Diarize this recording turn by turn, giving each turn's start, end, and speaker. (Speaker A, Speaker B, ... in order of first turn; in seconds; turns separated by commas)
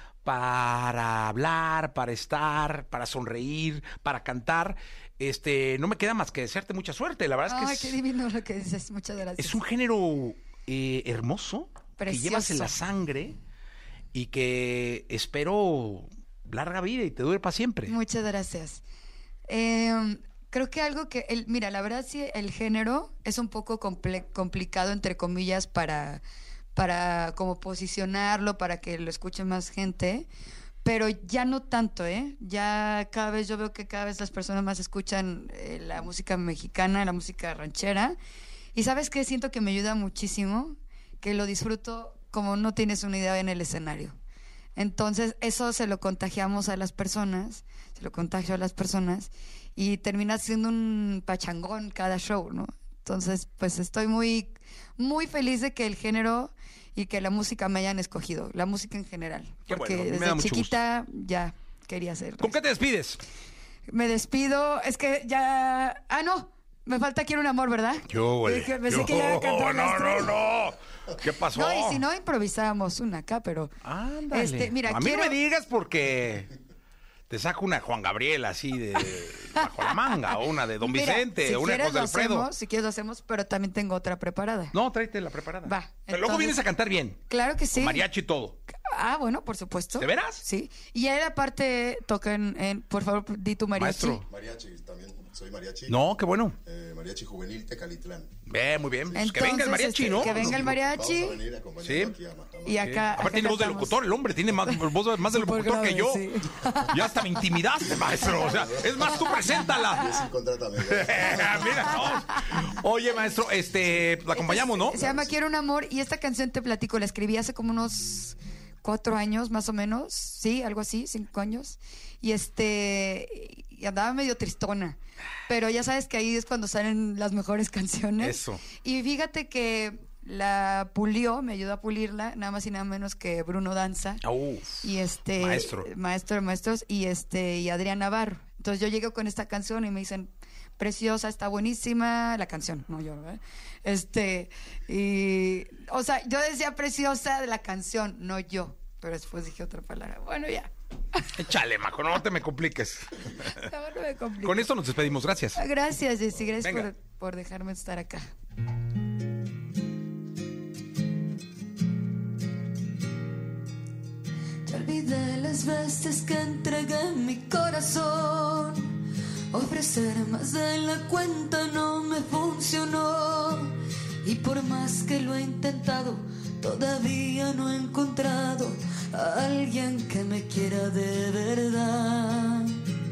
Speaker A: 0.2-8.0, Speaker B: 7.5-9.6, Speaker A: 9.4-13.4, Speaker B: 12.0-12.7, Speaker A: 14.1-18.0, Speaker B: 17.9-18.8, Speaker B: 19.5-26.2, Speaker B: 26.8-30.3, Speaker B: 30.8-38.2, Speaker B: 38.8-44.2, Speaker B: 44.8-62.6, Speaker A: 59.7-60.8, Speaker A: 62.4-63.2, Speaker B: 63.9-70.4, Speaker A: 68.1-72.0, Speaker B: 71.5-73.7, Speaker A: 73.8-76.5, Speaker B: 74.3-75.4, Speaker A: 77.3-82.5, Speaker B: 80.8-84.8, Speaker A: 84.7-87.2, Speaker B: 85.6-86.6, Speaker B: 87.3-88.1, Speaker A: 87.7-88.6, Speaker B: 88.7-94.2, Speaker A: 90.0-90.4, Speaker A: 93.8-94.2, Speaker C: 94.2-96.0, Speaker A: 95.9-96.6, Speaker C: 96.7-98.3, Speaker A: 98.5-100.8, Speaker B: 99.2-101.4, Speaker C: 100.0-103.0, Speaker A: 101.8-102.2, Speaker B: 102.7-104.0, Speaker A: 102.8-106.3, Speaker B: 104.7-107.3, Speaker A: 106.9-110.2, Speaker C: 108.1-112.2, Speaker A: 110.9-115.0, Speaker B: 114.3-134.2, Speaker C: 114.9-115.3, Speaker A: 128.2-128.6, Speaker A: 134.2-135.9, Speaker B: 134.8-151.3, Speaker A: 151.3-153.7, Speaker B: 153.5-154.8, Speaker A: 154.4-155.6, Speaker B: 155.6-158.3, Speaker A: 156.6-156.9, Speaker D: 164.7-169.0, Speaker D: 169.5-182.8